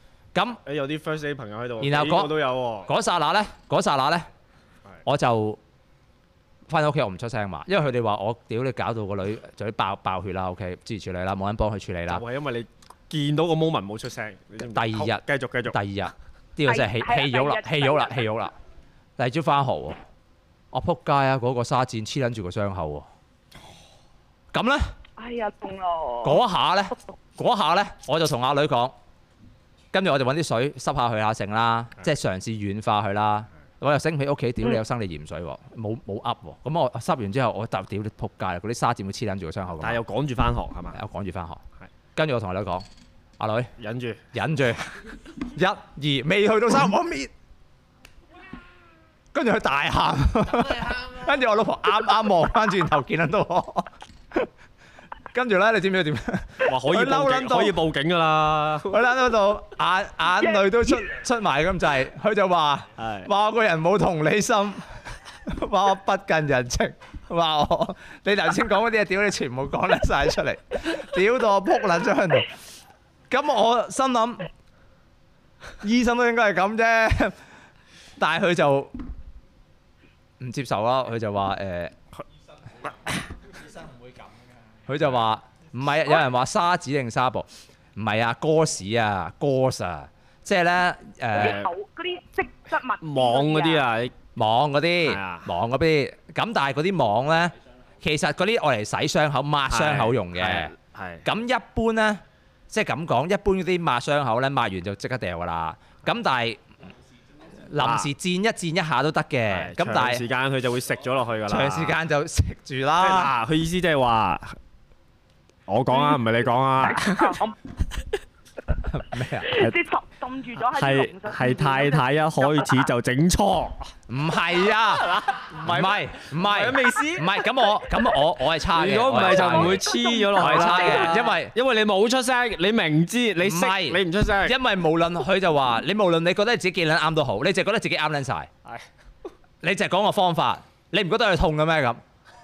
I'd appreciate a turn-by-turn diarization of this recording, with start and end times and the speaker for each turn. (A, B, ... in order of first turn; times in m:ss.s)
0:00.3-0:00.6 A
0:00.6-0:02.9 B
0:01.8-0:04.3 A
0:05.0-0:05.6 A
0:06.7-0:12.2 A
0:12.1-0:15.8 B
0:14.6-0:18.5 A
0:16.7-0:18.2 C
0:19.2-0:20.0 A
0:20.7-0:23.1 A
0:24.5-0:24.9 A
0:25.2-0:26.4 C
0:26.2-0:28.9 A
0:29.9-0:40.0 A
0:39.8-0:41.0 B
0:40.9-0:41.6 A
0:42.1-0:42.8 A
0:43.4-0:43.7 A
0:43.8-0:44.2 B
0:44.3-0:47.3 A
0:49.3-0:54.5 A
0:55.3-0:57.8 A
0:56.6-0:59.0 B
0:58.9-1:12.6 A
1:00.4-1:01.0 C
1:03.0-1:03.3 B
1:13.3-1:14.5 A
1:15.8-1:17.4 A
1:18.2-1:18.9 A
1:20.4-1:21.9 A
1:24.9-1:31.6 A
1:31.3-1:31.7 B
1:31.3-1:33.8 C
1:33.0-1:34.1 B
1:34.3-1:46.6 A
1:35.0-1:35.5 B
1:39.7-1:41.2 B
1:47.6-1:50.2 A
1:47.8-1:48.1 B
1:49.5-1:52.0 B
1:51.5-1:53.3 A
1:53.0-1:54.6 B
1:55.7-1:57.4 B
1:55.9-1:57.6 C
1:58.9-1:59.6 A
1:59.4-2:02.9 C
1:59.5-1:59.8 B
2:00.7-2:03.9 B
2:04.1-2:11.5 A
2:05.3-2:07.4 B
2:08.7-2:14.6 B
2:09.2-2:11.3 C
2:13.4-2:18.5 A
2:19.6-2:22.0 A